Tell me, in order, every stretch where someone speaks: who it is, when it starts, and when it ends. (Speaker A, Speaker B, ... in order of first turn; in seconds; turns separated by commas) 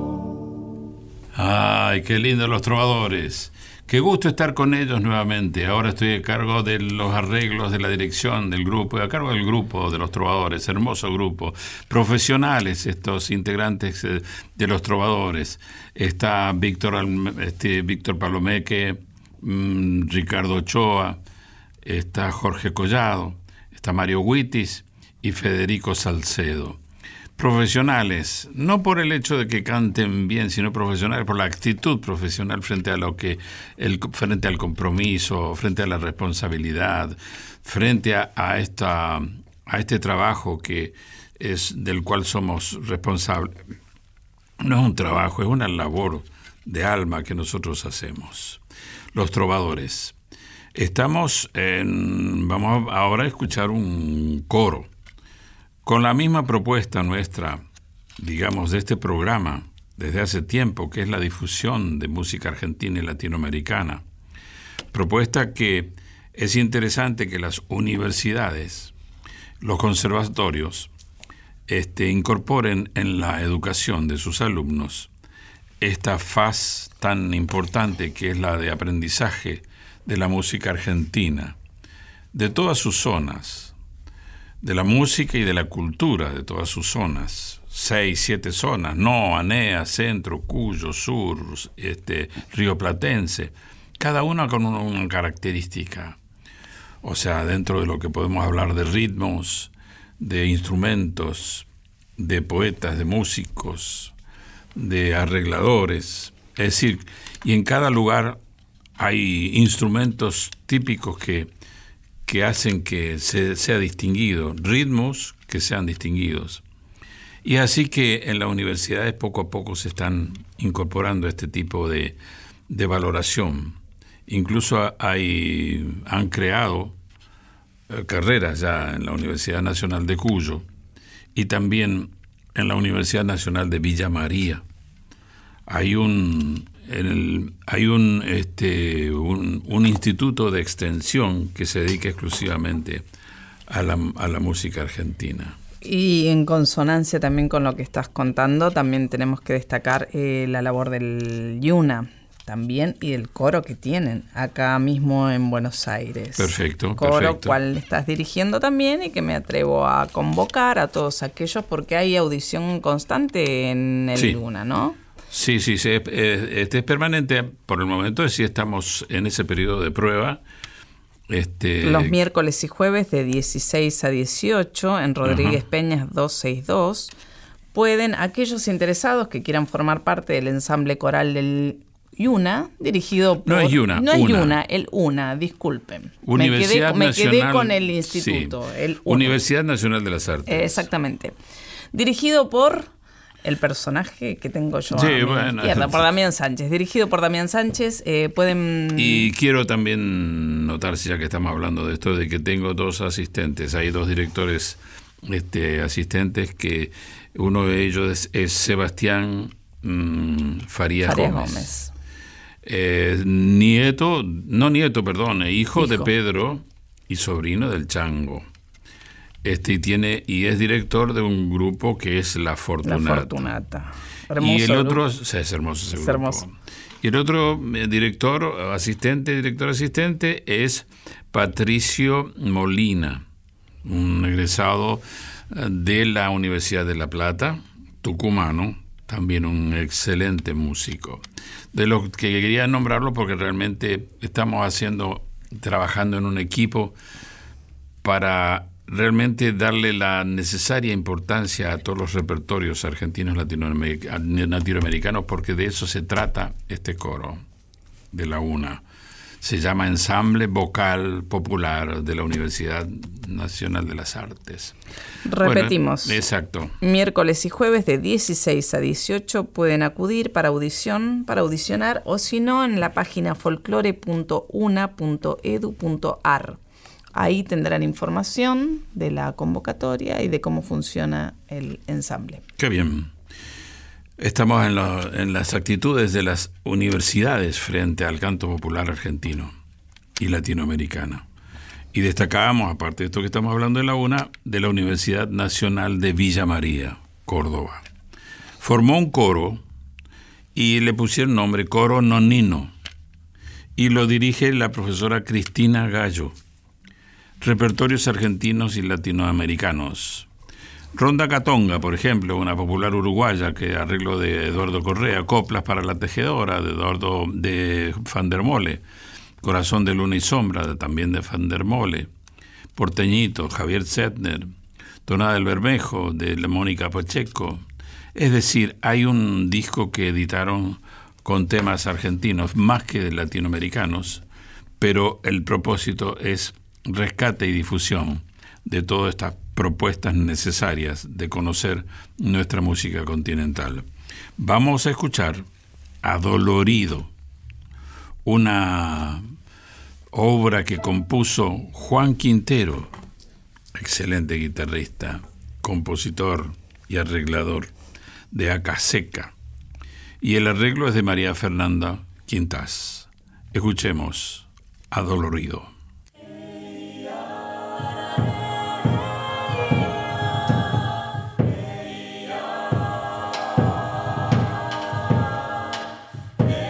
Speaker A: 1.3-21.2, Speaker A: 21.8-26.8, Speaker A: 27.4-43.6, Speaker A: 44.6-48.6, Speaker A: 49.1-50.1, Speaker A: 50.7-54.9, Speaker A: 55.8-57.6, Speaker A: 58.2-64.0, Speaker A: 64.9-68.9, Speaker A: 69.6-70.9, Speaker A: 71.7-75.1, Speaker A: 75.8-81.6, Speaker A: 82.3-83.7, Speaker A: 84.6-96.2, Speaker A: 97.0-104.1, Speaker A: 104.7-108.4, Speaker A: 109.0-111.5, Speaker A: 112.2-116.6, Speaker A: 117.4-122.2, Speaker A: 122.7-127.0, Speaker A: 127.9-130.6, Speaker A: 131.3-134.6, Speaker A: 135.7-143.0, Speaker A: 143.7-145.6, Speaker B: 145.8-165.0, Speaker A: 156.3-157.6, Speaker A: 164.1-164.4, Speaker A: 165.3-170.4, Speaker A: 171.3-172.2, Speaker B: 171.8-177.1, Speaker A: 175.2-175.6, Speaker B: 177.7-189.3, Speaker A: 183.4-184.6, Speaker A: 186.2-190.9, Speaker B: 190.4-191.3, Speaker B: 191.9-192.9, Speaker B: 193.4-199.3, Speaker A: 194.9-196.0, Speaker A: 199.0-211.7, Speaker B: 211.0-211.9, Speaker A: 212.6-218.5, Speaker B: 215.8-216.1, Speaker A: 219.4-223.5, Speaker B: 222.8-225.0, Speaker A: 224.4-233.2, Speaker B: 225.9-226.4, Speaker A: 233.8-246.9, Speaker A: 248.0-257.4, Speaker A: 258.1-258.8, Speaker A: 259.4-264.8, Speaker B: 265.2-266.2, Speaker A: 265.4-266.7, Speaker B: 266.8-276.6, Speaker B: 277.1-282.4, Speaker A: 282.6-283.1, Speaker A: 284.2-289.5, Speaker A: 290.2-291.2, Speaker A: 291.9-297.9, Speaker A: 298.6-299.6, Speaker A: 300.5-302.7, Speaker A: 303.8-306.4, Speaker A: 307.4-310.3, Speaker A: 310.9-318.8, Speaker A: 319.4-322.1, Speaker A: 322.7-324.5, Speaker A: 325.0-327.6, Speaker A: 328.1-334.2, Speaker A: 334.8-345.4, Speaker A: 346.0-347.1, Speaker A: 348.2-349.2, Speaker A: 350.1-352.9, Speaker A: 353.7-357.7, Speaker A: 358.3-359.3, Speaker A: 360.2-365.7